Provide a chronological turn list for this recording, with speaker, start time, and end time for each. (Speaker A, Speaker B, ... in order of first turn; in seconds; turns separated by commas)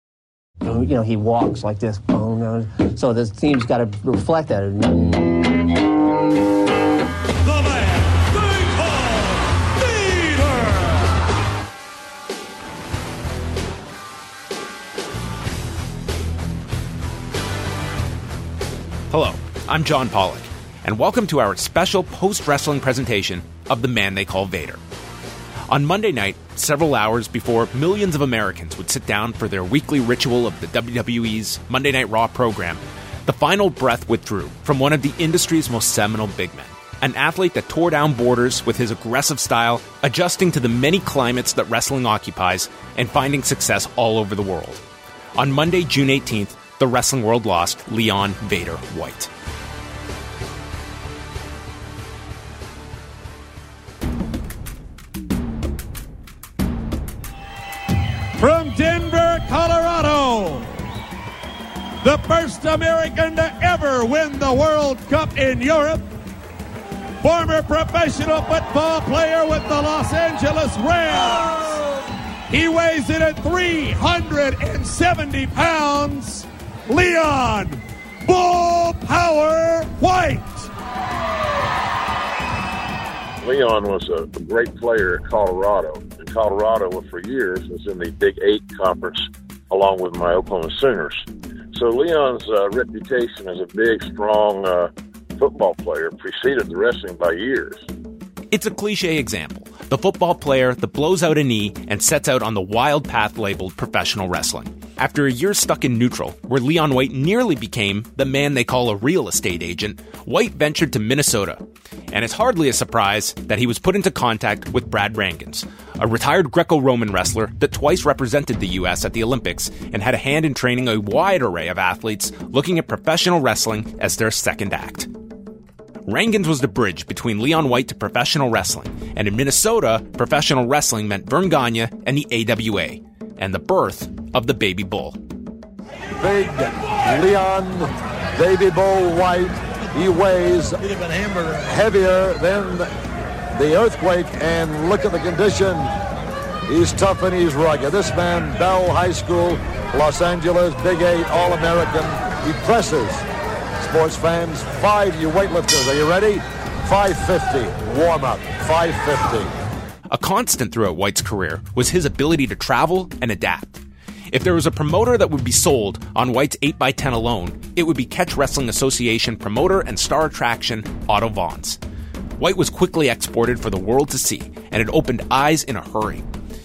Speaker A: 0.6-5.3, Speaker B: 7.5-10.9, Speaker C: 19.1-24.8, Speaker C: 25.7-44.8, Speaker C: 45.4-49.3, Speaker B: 58.4-60.8, Speaker B: 62.0-66.1, Speaker B: 67.2-71.8, Speaker B: 72.5-80.7, Speaker D: 83.4-97.9, Speaker C: 98.5-125.1, Speaker C: 126.1-135.2, Speaker E: 136.2-140.8, Speaker E: 141.6-142.9, Speaker E: 143.5-145.9, Speaker E: 146.7-153.2, Speaker E: 153.8-159.5, Speaker C: 160.1-171.8, Speaker C: 172.4-176.3